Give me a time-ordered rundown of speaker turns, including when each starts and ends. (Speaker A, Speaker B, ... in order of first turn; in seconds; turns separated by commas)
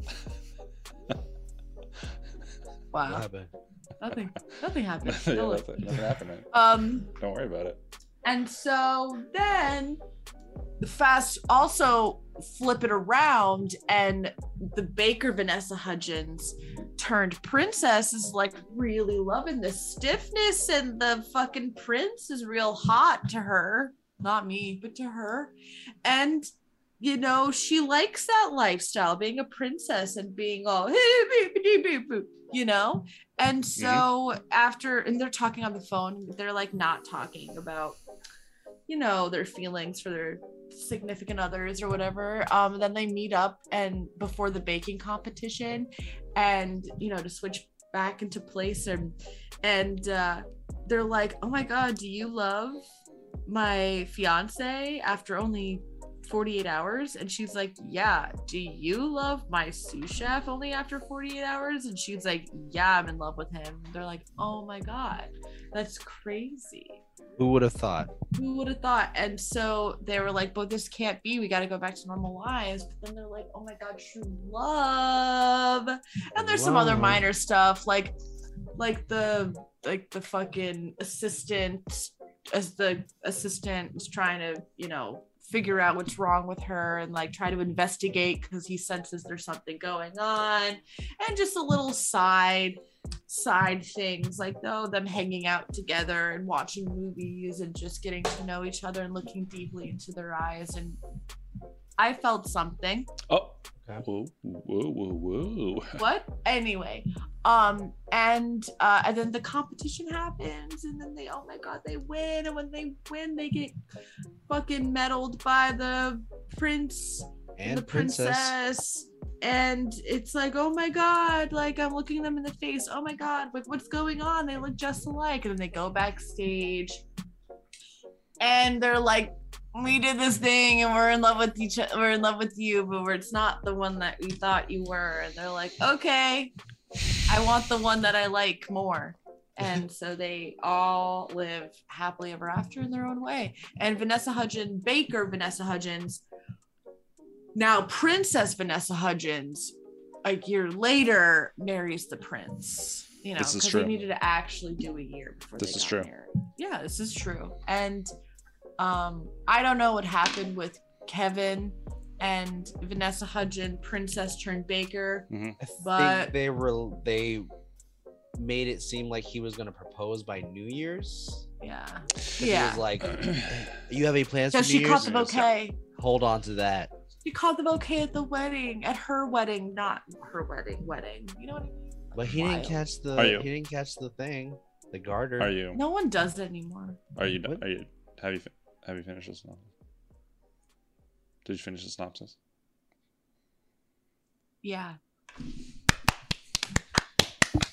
Speaker A: 2.9-3.2, Speaker B: 3.0-3.5, Speaker A: 4.0-6.0, Speaker C: 5.0-6.5, Speaker A: 6.5-7.1, Speaker C: 7.1-7.8, Speaker A: 8.2-10.0, Speaker A: 10.8-26.5, Speaker A: 27.0-38.0, Speaker C: 33.8-34.0, Speaker A: 38.9-52.8, Speaker A: 53.5-67.0, Speaker B: 67.4-68.1, Speaker A: 68.3-78.1, Speaker B: 76.4-77.3, Speaker A: 78.8-101.0, Speaker A: 102.0-103.1, Speaker C: 103.3-106.0, Speaker A: 106.0-113.8, Speaker A: 114.5-127.0, Speaker B: 117.6-118.5, Speaker A: 128.4-136.5, Speaker A: 137.3-146.2, Speaker A: 147.5-158.1, Speaker C: 153.4-153.9, Speaker C: 155.6-156.1, Speaker A: 158.8-165.3, Speaker C: 165.3-165.6, Speaker B: 165.6-167.5, Speaker A: 165.8-166.3, Speaker B: 168.3-171.4, Speaker A: 171.6-172.8, Speaker B: 172.4-175.2, Speaker C: 173.0-173.7, Speaker A: 174.5-175.8, Speaker C: 175.0-175.5, Speaker B: 175.9-176.9, Speaker A: 177.2-182.8, Speaker B: 182.1-185.5, Speaker C: 183.2-183.5, Speaker C: 185.4-185.8, Speaker A: 185.7-187.0, Speaker C: 187.2-189.6, Speaker C: 191.4-192.3, Speaker A: 194.6-195.0